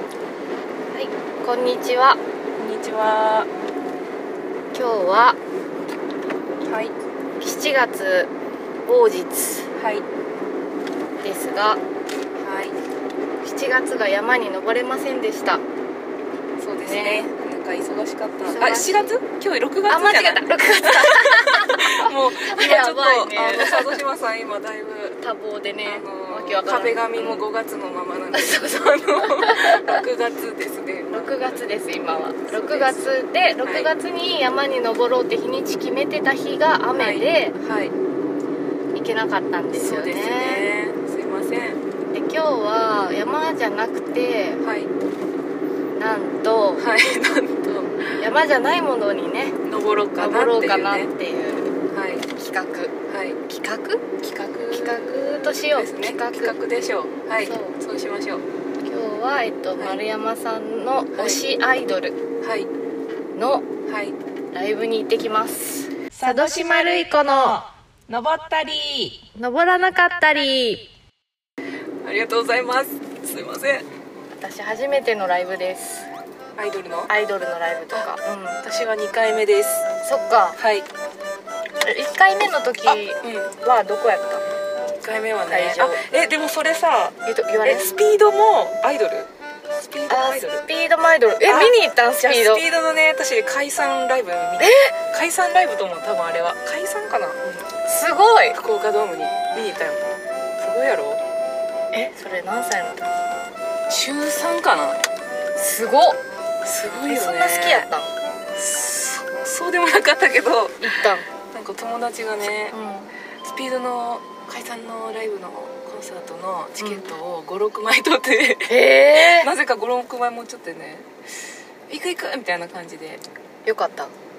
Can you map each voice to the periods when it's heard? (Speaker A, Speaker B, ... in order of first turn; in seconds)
Speaker A: 0.9-2.2, 4.7-5.4, 7.4-8.3, 8.9-9.7, 11.2-11.8, 13.4-15.6, 16.8-17.3, 18.5-19.1, 19.9-24.0, 25.2-27.4, 28.3-30.0, 31.1-37.6, 38.9-40.7, 42.1-44.6, 46.0-46.9, 48.2-49.6, 50.2-51.8, 52.3-52.9, 53.5-54.0, 54.7-56.6, 57.4-57.8, 58.8-62.2, 63.4-63.7, 64.5-67.6, 69.4-70.9, 74.4-76.1, 77.1-78.6, 80.0-80.6, 81.8-84.5, 85.5-86.0, 87.2-87.9, 90.1-92.6, 94.6-94.9, 97.7-98.6, 101.9-103.1, 105.6-106.2, 107.1-108.1, 110.8-111.3, 112.7-113.1, 116.8-117.1, 118.7-119.5, 123.7-124.1
Speaker B: 2.6-3.5, 6.7-7.0, 9.8-10.1, 12.4-12.8, 16.6-25.2, 25.9-33.1, 33.6-33.9, 37.0-38.0, 39.8-41.8, 44.6-44.9, 46.8-48.2, 49.6-51.1, 51.9-52.3, 53.1-53.4, 54.2-58.4, 61.1-61.4, 62.4-62.7, 63.9-64.2, 66.1-69.2, 72.0-73.9, 76.6-77.1, 78.6-79.9, 80.6-80.9, 82.9-83.5, 85.0-90.6, 91.5-97.4, 98.5-100.0, 100.6-101.2, 103.9-105.0, 106.6-107.9, 108.5-110.9, 111.5-112.8, 113.4-121.1, 121.9-123.2